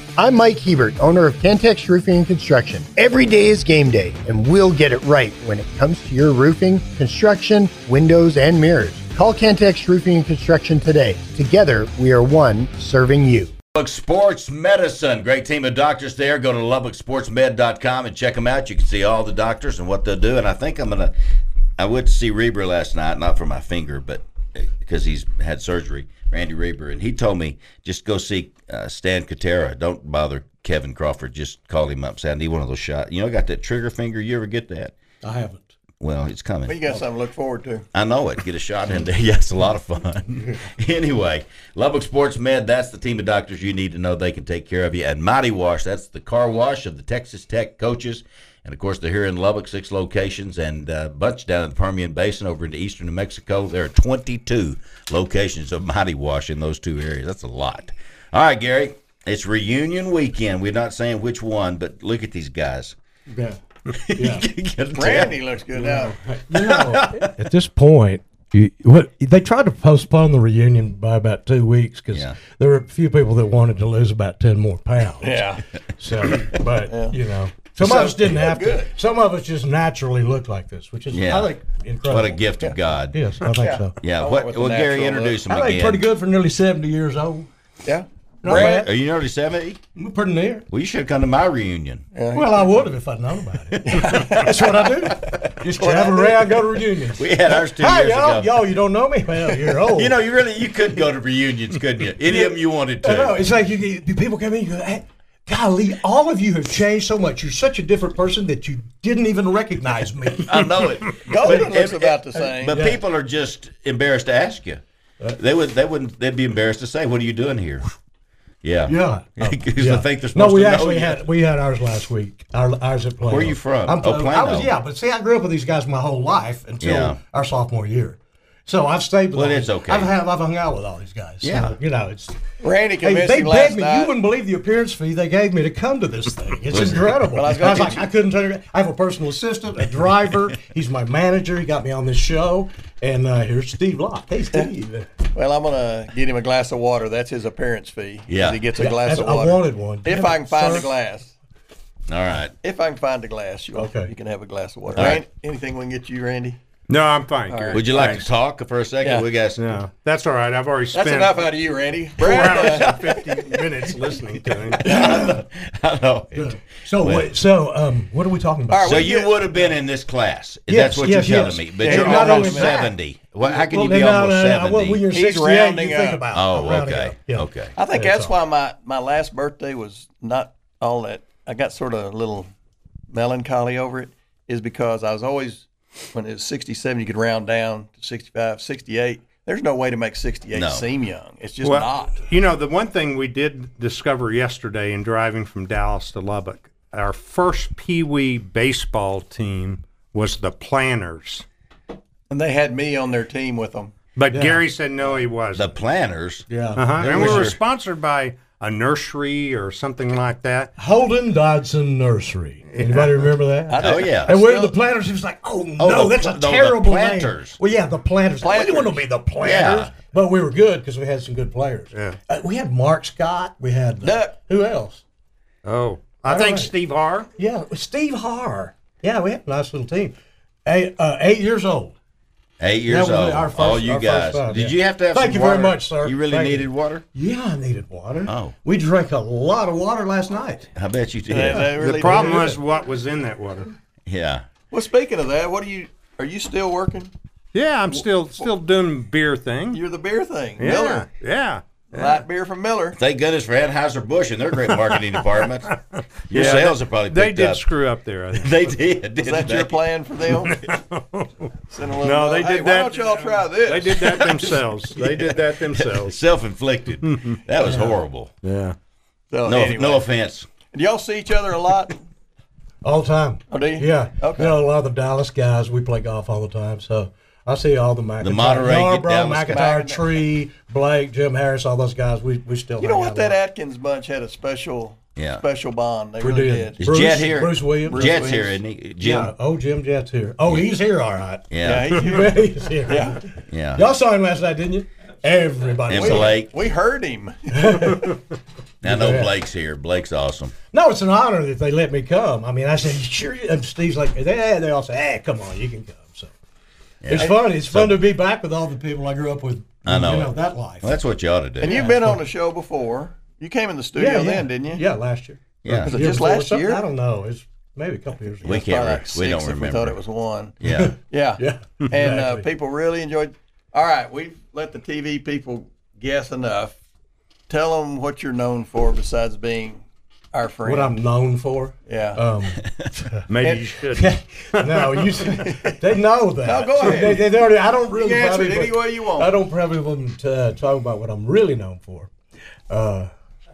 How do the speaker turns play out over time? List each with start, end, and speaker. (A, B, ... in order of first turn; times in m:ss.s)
0:00.2-0:13.5 A
0:13.7-0:21.1 B
0:21.8-0:34.9 B
0:35.2-0:35.7 C
0:36.0-0:36.8 B
0:36.7-0:37.8 D
0:37.9-1:03.0 B
1:03.3-1:03.6 C
1:03.9-1:05.4 B
1:04.2-1:04.4 C
1:04.9-1:06.1 D
1:05.8-1:15.4 C
1:06.5-1:07.3 B
1:15.2-1:15.6 D
1:16.0-1:22.4 C
1:16.9-1:17.2 D
1:17.8-1:18.9 D
1:21.1-1:21.5 B
1:22.0-1:23.2 B
1:23.1-1:23.9 C
1:23.4-1:25.4 D
1:24.0-1:26.1 B
1:25.5-1:27.5 C
1:27.8-1:28.8 D
1:28.4-1:28.9 C
1:28.4-1:29.8 B
1:30.0-1:30.6 C
1:30.7-1:32.0 B
1:32.1-1:32.8 D
1:32.3-1:40.1 C
1:33.8-1:34.6 D
1:35.8-1:36.6 D
1:37.2-1:38.6 B
1:39.9-1:43.4 B
1:42.2-1:50.7 C
1:50.4-1:54.8 B
1:51.2-1:52.7 D
1:51.4-1:51.7 C
1:52.3-1:53.0 C
1:55.4-1:57.8 B
1:58.6-2:01.2 B
1:58.8-2:12.4 C
2:03.3-2:04.7 B
2:06.8-2:07.2 B
2:09.3-2:10.1 B
2:11.4-2:11.8 B
2:12.6-2:14.1 D
2:13.0-2:25.1 C
2:16.7-2:17.5 B
2:17.3-2:18.1 D
2:25.3-2:31.3 D
2:28.3-2:28.6 B
2:28.8-2:30.9 C
2:32.1-2:32.5 B
2:32.6-2:36.6 D
2:33.7-2:34.1 C
2:35.0-2:35.2 B
2:36.9-2:38.2 E
2:37.5-2:37.9 D
2:37.7-2:39.8 B
2:39.6-2:41.4 E
2:40.9-2:43.1 D
2:42.2-2:44.8 E
2:42.5-2:43.2 B
2:44.6-2:47.3 B
2:44.8-2:45.4 C
2:46.3-2:49.1 C
2:48.7-2:49.3 D
2:48.8-2:55.0 B
2:50.7-2:52.9 C
2:51.8-2:52.8 D
2:53.4-2:58.3 C
2:55.1-2:56.2 D
2:56.3-2:57.7 B
2:57.7-3:02.5 D
3:03.1-3:12.1 D
3:10.5-3:10.8 B
3:11.6-3:21.4 E
3:22.3-3:23.9 D
3:24.2-3:25.7 E
3:24.3-3:24.6 C
3:25.5-3:27.6 B
3:26.5-3:27.5 C
3:26.8-3:30.7 E
3:30.8-3:45.0 C
3:32.7-3:33.2 E
3:33.7-3:34.7 D
3:33.8-3:34.3 B
3:35.8-3:37.6 B
3:38.4-3:39.0 D
3:39.4-3:39.9 B
3:44.0-3:44.3 D
3:45.6-3:47.3 E
3:46.3-3:46.7 C
3:47.4-3:50.1 C
3:50.6-3:51.9 C
3:52.6-3:57.0 B
3:52.9-4:00.7 C
3:58.2-3:58.6 B
4:00.7-4:01.7 B
4:01.3-4:02.5 D
4:01.7-4:02.6 C
4:01.8-4:03.7 E
4:04.0-4:04.4 B
4:04.7-4:07.1 D
4:07.5-4:09.8 E
4:09.7-4:11.1 D
4:10.6-4:12.2 E
4:11.9-4:13.0 D
4:13.0-4:15.7 B
4:15.2-4:15.7 E
4:16.3-4:17.6 B
4:16.3-4:18.5 E
4:16.3-4:16.7 D
4:18.3-4:19.8 B
4:19.2-4:20.6 D
4:20.5-4:21.5 E
4:21.7-4:24.3 D
4:22.0-4:26.2 E
4:25.0-4:28.3 B
4:27.0-4:27.4 E
4:27.6-4:28.0 C
4:28.4-4:28.8 E
4:29.3-4:30.0 D
4:29.4-4:30.5 B
4:30.7-4:32.0 D
4:32.8-4:43.4 C
4:33.5-4:34.5 D
4:38.2-4:39.6 B
4:39.5-4:40.2 D
4:42.8-4:46.8 D
4:45.2-4:45.4 B
4:46.2-4:48.4 C
4:46.8-4:49.3 B
4:47.8-4:48.6 D
4:49.0-4:56.4 C
4:51.5-4:52.3 B
4:51.6-4:53.2 D
4:53.5-4:53.9 B
4:55.8-4:56.5 B
4:55.9-4:58.0 D
4:57.5-4:58.2 C
4:58.8-5:00.5 B
4:58.8-4:59.3 C
5:00.7-5:06.3 C
5:07.0-5:08.0 B
5:07.1-5:11.0 C
5:09.8-5:11.8 B
5:11.6-5:12.2 C
5:11.6-5:14.8 D
5:14.0-5:18.6 C
5:15.6-5:16.0 B
5:15.7-5:16.8 D
5:18.4-5:20.0 B
5:18.4-5:20.6 D
5:20.6-5:21.0 B
5:20.6-5:22.4 C
5:21.1-5:26.8 D
5:27.5-5:29.8 D
5:30.3-5:30.9 D
5:30.6-5:33.2 C
5:31.9-5:32.2 D
5:33.3-5:35.0 E
5:33.9-5:42.1 C
5:36.4-5:39.3 D
5:42.7-5:43.1 C